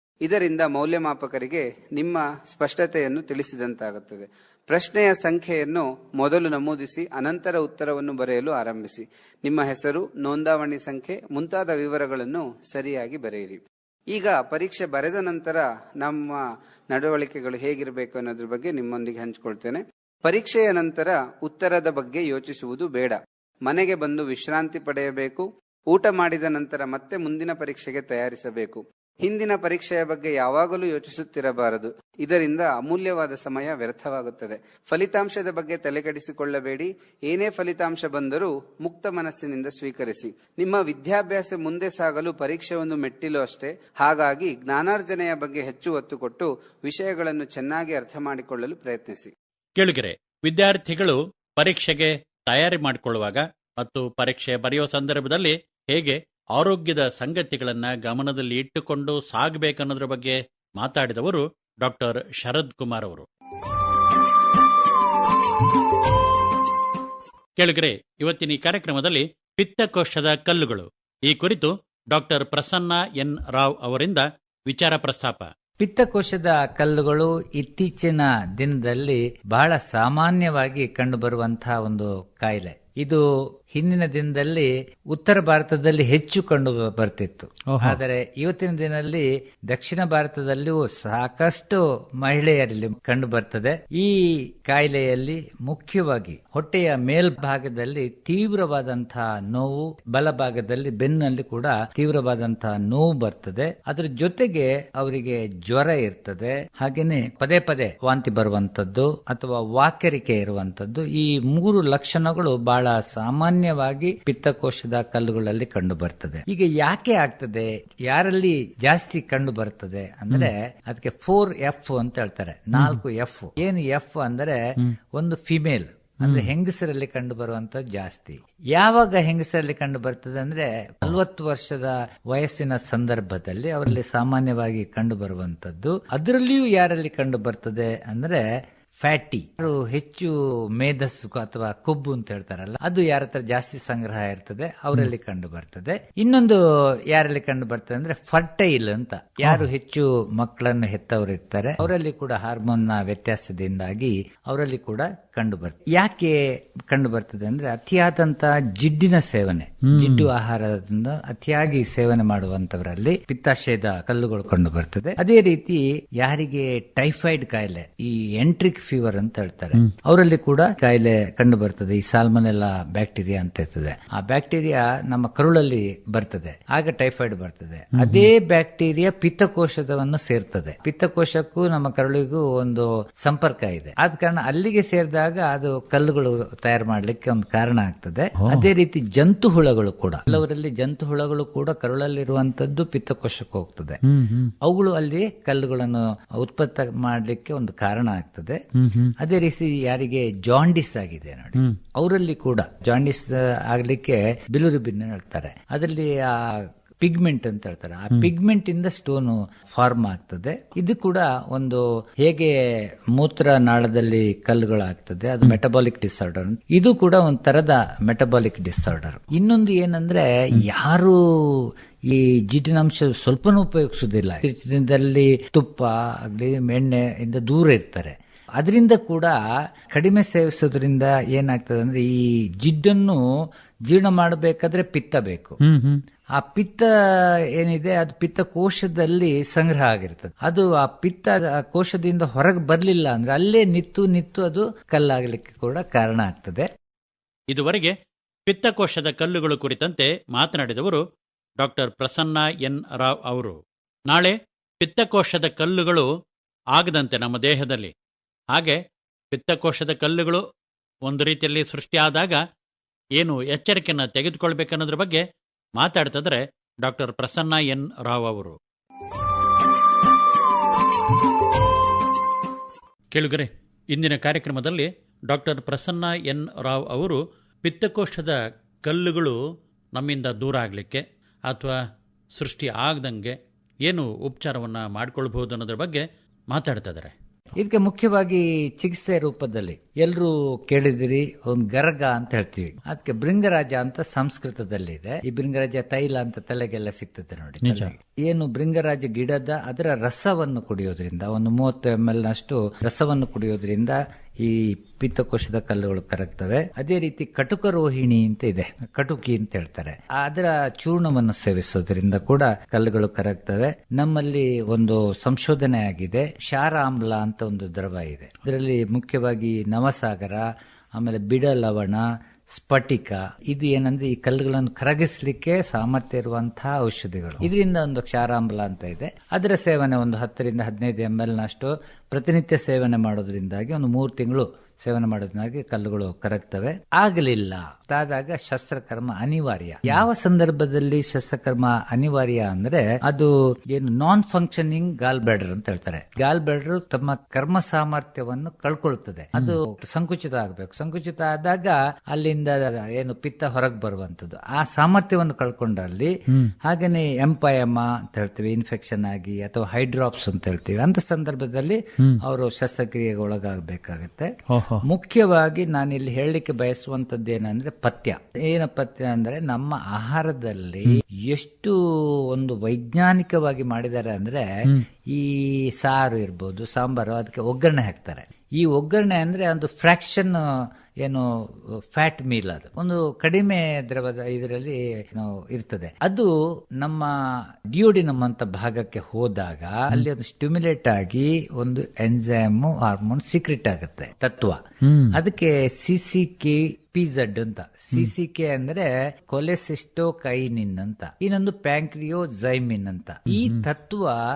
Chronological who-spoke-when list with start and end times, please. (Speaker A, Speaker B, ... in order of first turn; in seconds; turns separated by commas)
Speaker A: 0.2-49.3, Speaker B: 49.8-63.2, Speaker B: 67.6-75.5, Speaker C: 75.8-83.2, Speaker C: 83.7-124.6, Speaker B: 87.7-88.0, Speaker B: 122.7-123.0, Speaker C: 125.2-138.4, Speaker B: 126.2-126.5, Speaker C: 138.9-146.6, Speaker C: 147.1-156.4, Speaker C: 156.9-194.0, Speaker B: 159.9-160.3, Speaker B: 177.9-178.3, Speaker B: 188.4-188.7, Speaker B: 194.0-194.5, Speaker C: 194.6-198.6, Speaker B: 198.8-199.1, Speaker C: 199.2-212.5, Speaker C: 213.1-229.4, Speaker C: 229.9-232.1, Speaker C: 232.6-233.2, Speaker C: 233.9-235.6, Speaker B: 235.6-236.0, Speaker C: 236.3-236.9, Speaker C: 237.6-246.7, Speaker B: 247.5-247.9, Speaker B: 248.5-251.0, Speaker B: 251.6-253.6, Speaker B: 254.1-256.1, Speaker B: 256.7-257.9, Speaker B: 258.5-258.8, Speaker B: 259.3-260.4, Speaker B: 261.1-262.4, Speaker B: 263.2-265.2, Speaker B: 265.8-268.6, Speaker B: 273.1-279.4, Speaker B: 279.9-281.8, Speaker B: 282.3-287.1, Speaker C: 287.6-320.4, Speaker B: 297.6-297.9, Speaker C: 321.0-356.1, Speaker C: 356.6-364.3, Speaker B: 364.5-364.8, Speaker C: 364.8-371.8, Speaker C: 372.3-374.4, Speaker C: 375.1-380.4, Speaker C: 381.9-387.1, Speaker C: 387.7-394.6, Speaker B: 394.8-395.2, Speaker C: 395.1-404.2, Speaker B: 403.3-403.6